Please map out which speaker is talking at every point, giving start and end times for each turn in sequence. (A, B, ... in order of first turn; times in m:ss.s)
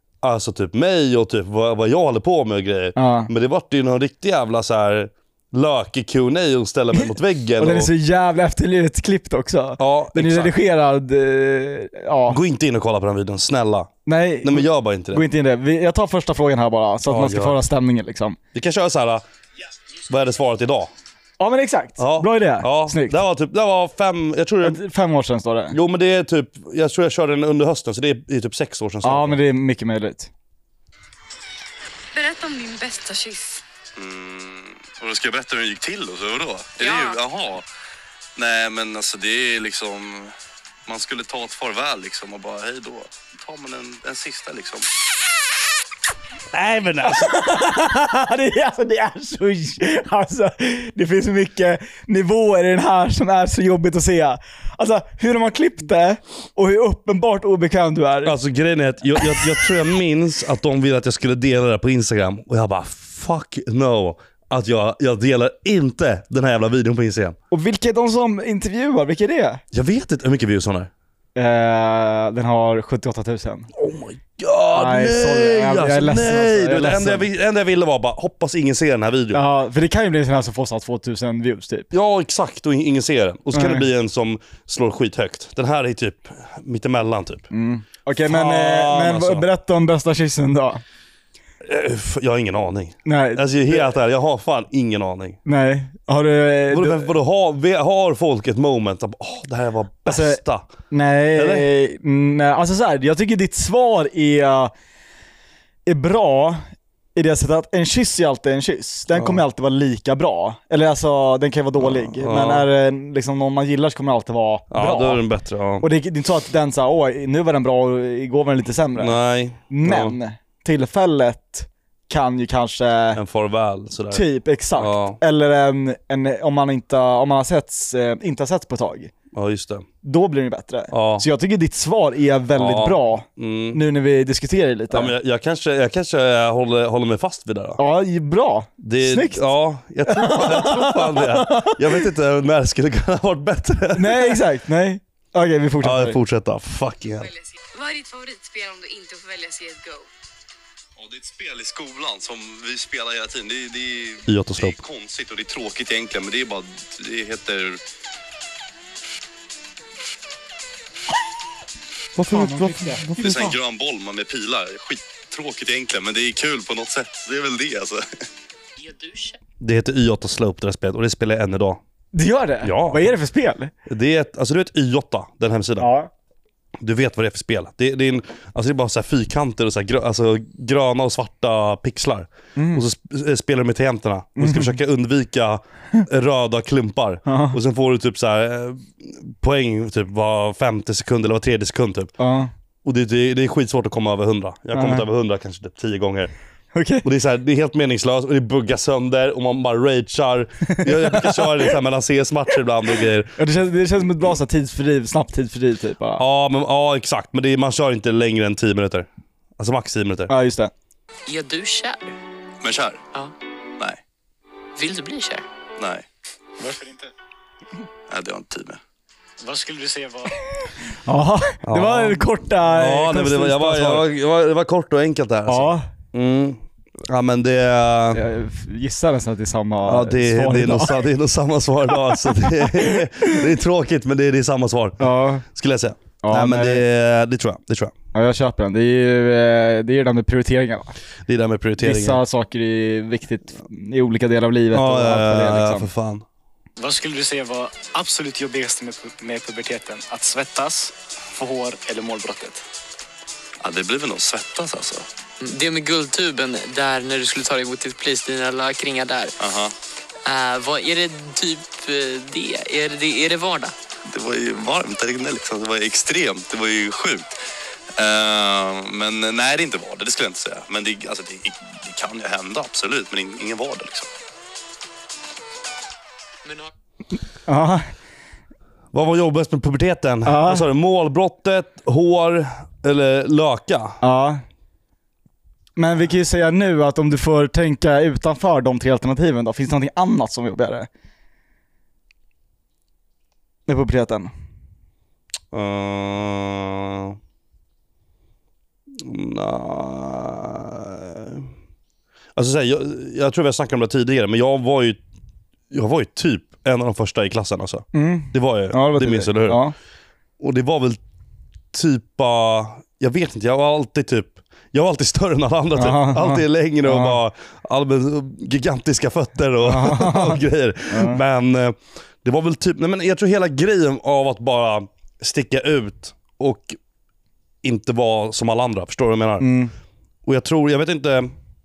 0:00.2-0:07.9 A
0:03.0-0:03.3 B
0:06.9-0:12.4 B
0:09.8-0:10.5 A
0:12.3-0:13.9 A
0:14.1-0:18.4 B
0:14.4-0:15.2 A
0:17.1-0:17.6 A
0:18.5-0:19.2 A
0:20.1-0:20.9 A
0:21.4-0:23.2 B
0:22.0-0:24.8 A
0:24.6-0:25.8 B
0:25.7-0:29.4 A
0:29.0-0:30.3 B
0:32.1-0:33.6 C
0:34.0-0:37.6 D
0:34.0-0:37.6 A
0:36.8-0:37.2 C
0:38.4-0:40.3 D
0:38.4-0:40.3 A
0:40.9-0:44.9 D
0:40.9-0:42.6 A
0:43.3-0:44.7 A
0:46.5-0:47.4 A
0:47.0-0:58.4 B
0:58.2-1:07.4 A
0:59.2-0:59.6 B
1:07.5-1:09.6 B
1:09.7-1:10.9 A
1:11.4-1:13.7 B
1:13.7-1:19.4 A
1:14.7-1:17.3 B
1:19.3-1:21.9 B
1:21.9-1:27.5 A
1:23.5-1:23.9 B
1:27.5-1:30.8 B
1:28.2-1:29.5 A
1:31.6-1:35.4 A
1:33.1-1:33.9 B
1:35.5-1:37.1 B
1:36.7-1:40.7 A
1:40.0-1:44.7 B
1:41.4-1:41.7 A
1:45.9-1:46.6 B
1:47.2-1:55.2 B
1:49.1-1:49.4 A
1:51.8-1:52.7 A
1:54.7-1:55.9 A
1:55.8-1:59.2 B
1:59.0-2:00.2 A
1:59.7-2:03.2 B
2:03.2-2:04.2 A
2:04.1-2:09.1 B
2:04.8-2:05.2 A
2:09.3-2:09.9 A
2:10.0-2:15.1 B
2:10.9-2:11.3 A
2:12.6-2:13.8 A
2:14.9-2:17.8 A
2:17.8-2:19.5 B
2:18.8-2:24.4 A
2:20.1-2:22.0 B
2:24.0-2:26.2 B
2:25.8-2:27.3 A
2:27.2-2:30.1 C
2:31.0-2:37.8 D
2:31.0-2:37.1 A
2:42.2-2:43.9 A
2:42.3-2:43.5 B
2:43.2-2:48.0 D
2:44.4-2:44.7 A
2:48.8-2:49.4 E
2:49.6-2:51.8 A
2:52.1-2:53.7 B
2:52.6-2:53.1 A
2:53.9-2:55.9 A
2:55.8-2:56.1 B
2:56.8-3:12.1 A
3:02.6-3:02.8 B
3:04.4-3:04.8 B
3:07.3-3:07.6 B
3:12.2-3:12.5 B
3:12.8-3:16.3 A
3:14.7-3:15.1 B
3:16.7-3:17.0 B
3:17.0-3:23.4 A
3:20.7-3:21.8 B
3:23.4-3:26.2 B
3:26.2-3:30.3 A
3:30.3-3:30.7 B
3:31.3-3:32.0 E
3:32.6-3:32.9 D
3:32.7-3:33.0 A
3:34.8-3:35.4 E
3:36.6-3:37.1 F
3:38.1-3:38.6 D
3:38.4-3:38.7 A
3:39.4-3:40.4 F
3:41.0-3:44.1 B
3:41.6-3:48.2 A
3:45.5-3:45.9 B
3:48.1-3:51.0 B
3:49.8-3:57.9 A
3:51.9-3:53.4 B
3:55.0-3:55.4 B
3:56.2-3:56.8 B
3:58.1-4:01.0 B
4:01.3-4:02.2 A
4:01.8-4:05.9 B
4:04.7-4:06.2 A
4:06.8-4:12.6 F
4:13.6-4:15.1 D
4:15.4-4:19.5 E
4:19.4-4:19.7 D
4:20.2-4:23.7 E
4:24.0-4:27.4 D
4:28.0-4:34.1 D
4:36.4-4:36.7 E
4:37.5-4:37.9 B
4:38.9-4:44.0 A
4:40.2-4:40.6 B
4:44.0-4:44.4 B
4:45.8-4:50.9 B
4:53.7-4:54.3 B
4:55.5-4:57.2 A
4:59.0-5:01.5 A
5:02.4-5:05.0 A
5:05.7-5:09.6 A
5:07.9-5:09.7 B
5:10.4-5:11.0 A
5:11.7-5:26.8 A
5:15.8-5:17.2 B
5:19.6-5:21.2 B
5:27.6-5:29.5 A
5:29.4-5:29.7 B
5:30.2-5:31.3 A